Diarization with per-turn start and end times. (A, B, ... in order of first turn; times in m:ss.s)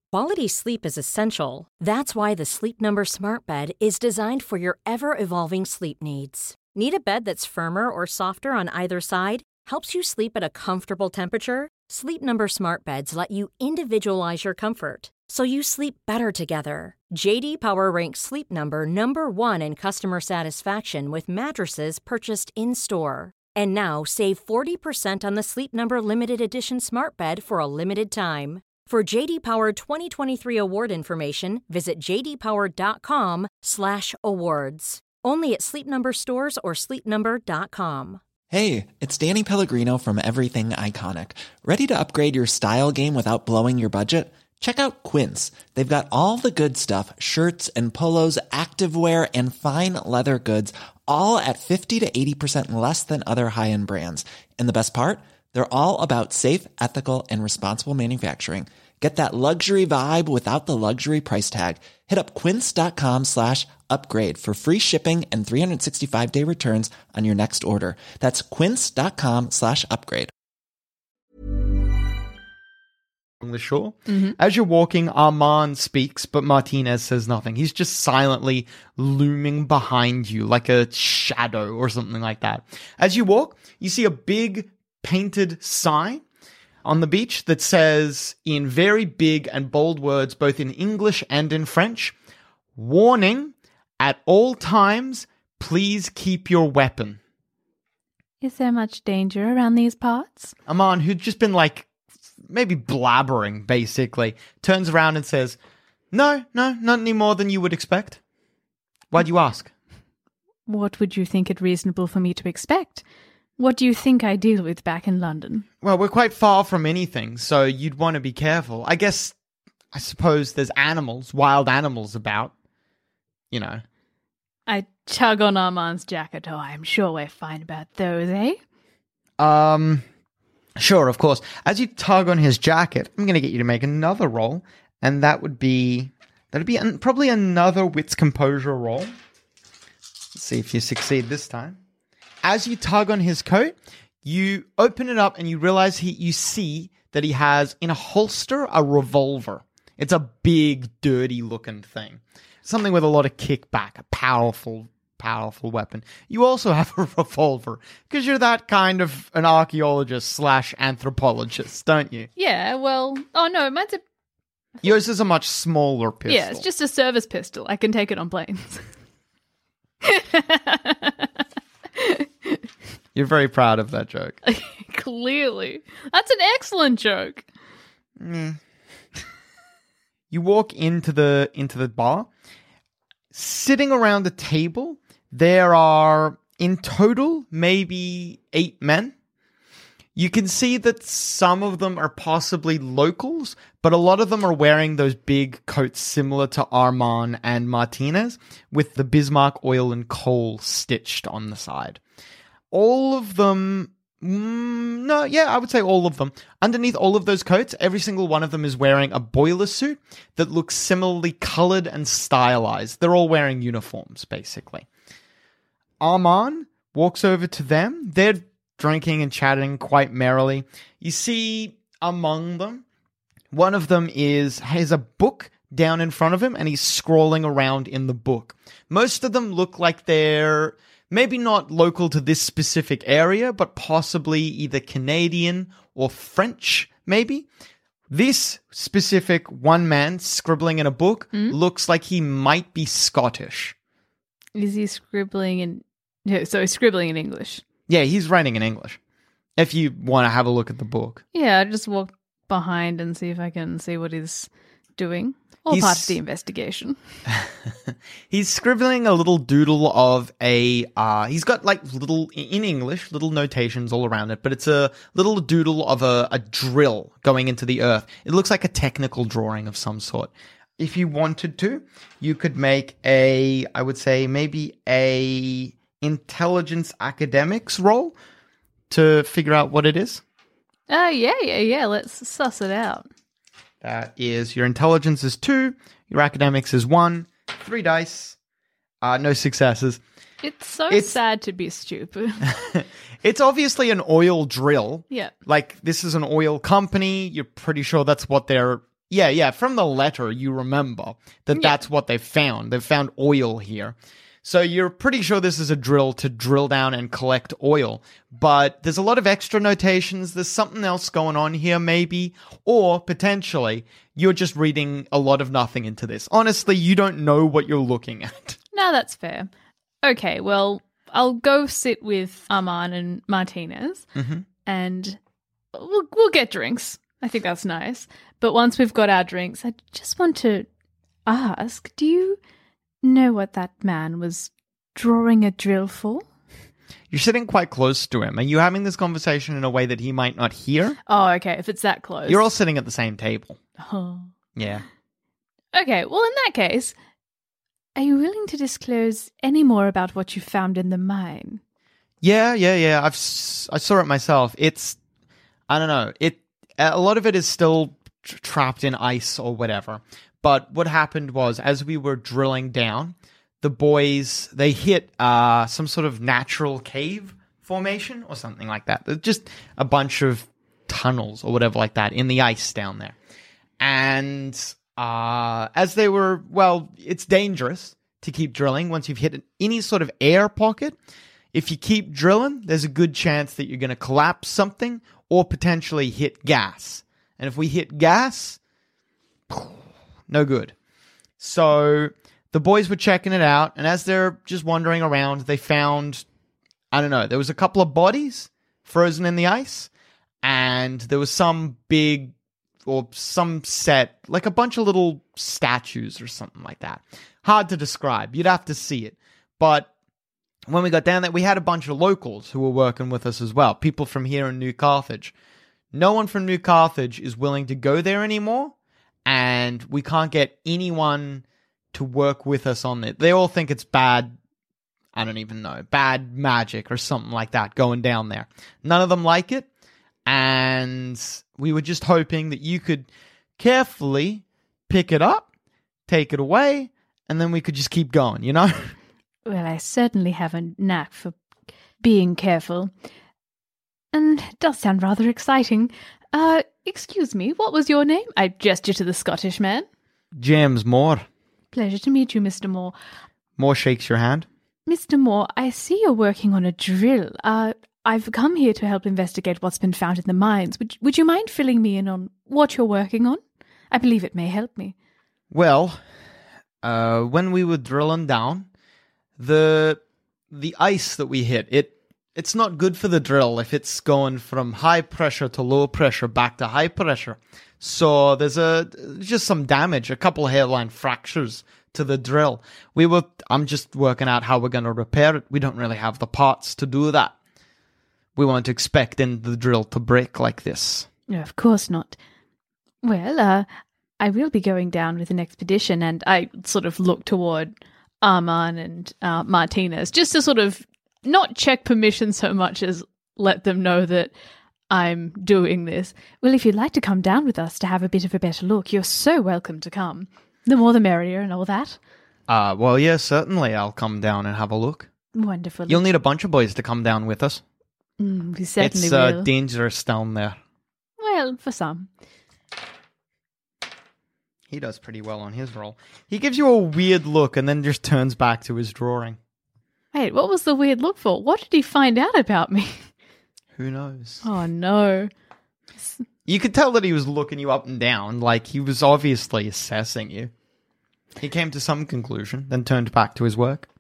0:00.1-0:38.2 A
0:38.5-1:10.3 B
1:13.4-1:26.2 C
1:14.1-1:14.4 D
1:26.8-1:32.2 C
1:32.8-1:37.2 C
1:38.4-1:40.6 D
1:40.7-1:41.9 C
1:42.5-1:45.6 C
1:46.1-1:48.2 C
1:49.1-1:49.7 C
1:50.7-1:53.0 D
1:53.6-1:55.7 D
1:55.8-1:59.4 C
1:59.9-2:02.5 C
2:03.5-2:03.8 C
2:04.7-2:08.6 D
2:09.4-2:10.1 C
2:10.8-2:19.1 C
2:20.3-2:21.8 C
2:22.4-2:42.3 C
2:42.4-2:44.0 D
2:44.8-2:46.7 C
2:46.3-2:48.9 D
2:50.0-2:51.3 D
2:52.0-2:52.6 D
2:53.2-2:54.4 C
2:54.5-2:57.5 D
2:58.2-2:58.6 C
3:00.3-3:02.3 C
3:03.3-3:09.1 C
3:10.2-3:22.0 C
3:22.7-3:34.9 C
3:36.0-3:42.8 C
3:43.5-3:57.5 C
3:58.1-4:03.8 C
4:04.6-4:07.6 D
4:07.9-4:09.0 C
4:09.6-4:11.2 C
4:11.3-4:17.0 D
4:15.7-4:16.2 C
4:17.3-4:38.2 C
4:38.9-4:40.2 C
4:40.9-4:43.1 D
4:43.8-4:48.4 C
4:49.0-4:50.0 C
4:50.4-4:52.5 D
4:50.9-4:51.2 C
4:52.5-5:18.6 C
5:18.7-5:19.5 D
5:20.0-5:24.1 D
5:24.2-5:24.4 C
5:24.6-5:25.2 D
5:25.7-5:30.7 D
5:31.3-5:32.4 D
5:33.0-5:36.2 D
5:37.1-5:41.0 C
5:41.1-5:42.4 D
5:42.3-5:43.6 C
5:43.8-5:44.3 D
5:44.6-5:44.8 C
5:45.7-5:47.0 D
5:48.0-5:51.6 D
5:52.2-5:55.0 C
5:55.7-6:13.2 C
6:13.8-6:21.0 C
6:21.5-6:28.6 C
6:29.5-6:30.8 C
6:31.4-6:36.2 C
6:36.9-6:39.9 C
6:40.4-6:42.3 C
6:42.8-6:49.9 C
6:50.7-6:55.3 C
6:55.9-6:58.7 C
6:59.3-7:04.4 C
7:05.1-7:09.7 C
7:10.3-7:15.5 C
7:16.1-7:18.9 C
7:19.5-7:21.4 D
7:22.0-7:22.9 D
7:24.1-7:29.9 D
7:30.3-7:31.2 C
7:31.7-7:33.0 D
7:33.6-7:34.5 C
7:34.9-7:43.4 D
7:43.9-7:45.0 D
7:45.5-7:46.0 C
7:46.8-7:48.7 C
7:49.4-8:07.4 C
8:08.4-8:11.1 C
8:11.3-8:12.2 D
8:13.0-8:13.7 D
8:14.2-8:24.3 D
8:24.9-8:32.0 D
8:32.5-8:35.1 C
8:35.4-8:36.0 D
8:35.9-8:37.6 C
8:38.2-8:39.5 D
8:38.8-8:40.6 C
8:41.2-8:42.1 D
8:44.7-8:49.4 C
8:50.1-8:53.1 D
8:53.8-8:54.4 C
8:54.4-8:55.3 D
8:56.0-8:56.2 D
8:56.5-9:00.5 C
9:01.4-9:03.9 C